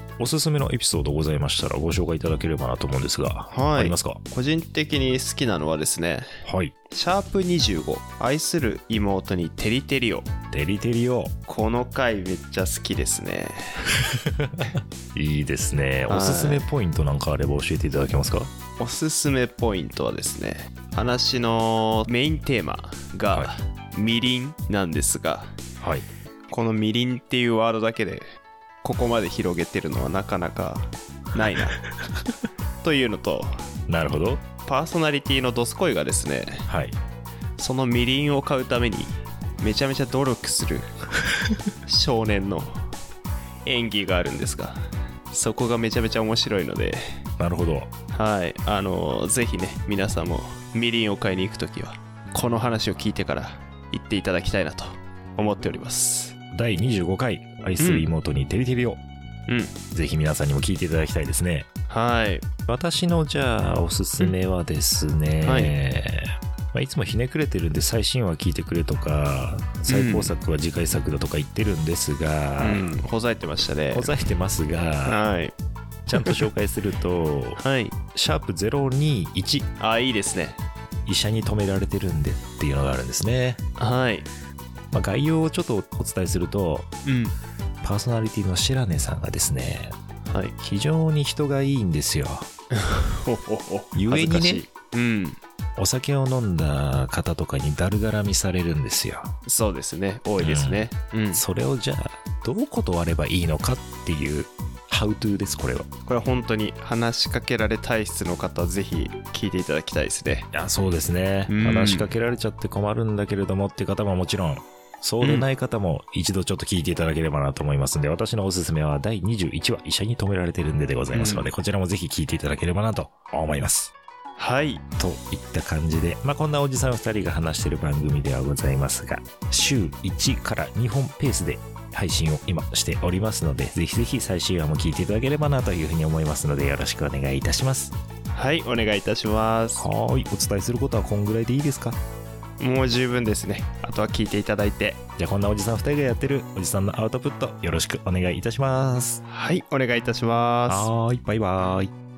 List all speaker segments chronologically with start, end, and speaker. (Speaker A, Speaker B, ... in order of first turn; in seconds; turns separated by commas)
Speaker A: 0.2-4.2, Speaker B: 3.5-6.3, Speaker A: 6.4-6.8, Speaker B: 6.9-10.3, Speaker A: 10.5-11.3, Speaker B: 11.5-13.9, Speaker A: 14.0-18.5, Speaker B: 16.1-16.7, Speaker B: 18.8-25.5, Speaker A: 25.8-26.1, Speaker B: 26.5-28.2, Speaker B: 28.8-31.8, Speaker B: 32.8-33.5, Speaker A: 33.9-34.4, Speaker B: 34.7-36.7, Speaker A: 36.7-37.0, Speaker B: 37.6-40.9, Speaker B: 41.9-42.8, Speaker B: 43.6-47.0, Speaker A: 47.4-47.9, Speaker B: 48.1-56.3, Speaker A: 56.5-59.0, Speaker B: 57.8-58.1, Speaker B: 59.5-59.8, Speaker A: 59.9-61.7, Speaker B: 61.9-62.5, Speaker A: 62.7-72.8, Speaker B: 65.4-65.8, Speaker B: 69.8-70.3, Speaker B: 72.6-74.1, Speaker A: 73.9-75.2, Speaker B: 75.0-75.5, Speaker A: 76.1-77.6, Speaker B: 76.2-76.4, Speaker B: 77.6-78.0, Speaker A: 78.1-79.7, Speaker B: 79.8-80.6, Speaker A: 81.1-83.6, Speaker B: 83.8-84.3, Speaker A: 84.9-86.9, Speaker B: 87.0-87.3, Speaker A: 87.8-89.9, Speaker B: 90.3-90.5, Speaker A: 90.6-92.5, Speaker B: 92.7-95.4, Speaker A: 93.9-94.7, Speaker A: 95.8-99.3, Speaker B: 99.4-101.4, Speaker A: 100.4-105.9, Speaker B: 106.1-110.5, Speaker A: 110.5-123.9, Speaker B: 111.5-112.1, Speaker B: 115.2-115.5, Speaker B: 121.1-121.5, Speaker B: 124.4-124.8, Speaker A: 125.0-137.9, Speaker B: 138.3-139.9, Speaker A: 139.8-142.0, Speaker B: 142.6-145.0, Speaker A: 145.2-149.2, Speaker B: 149.2-150.9, Speaker A: 150.7-151.9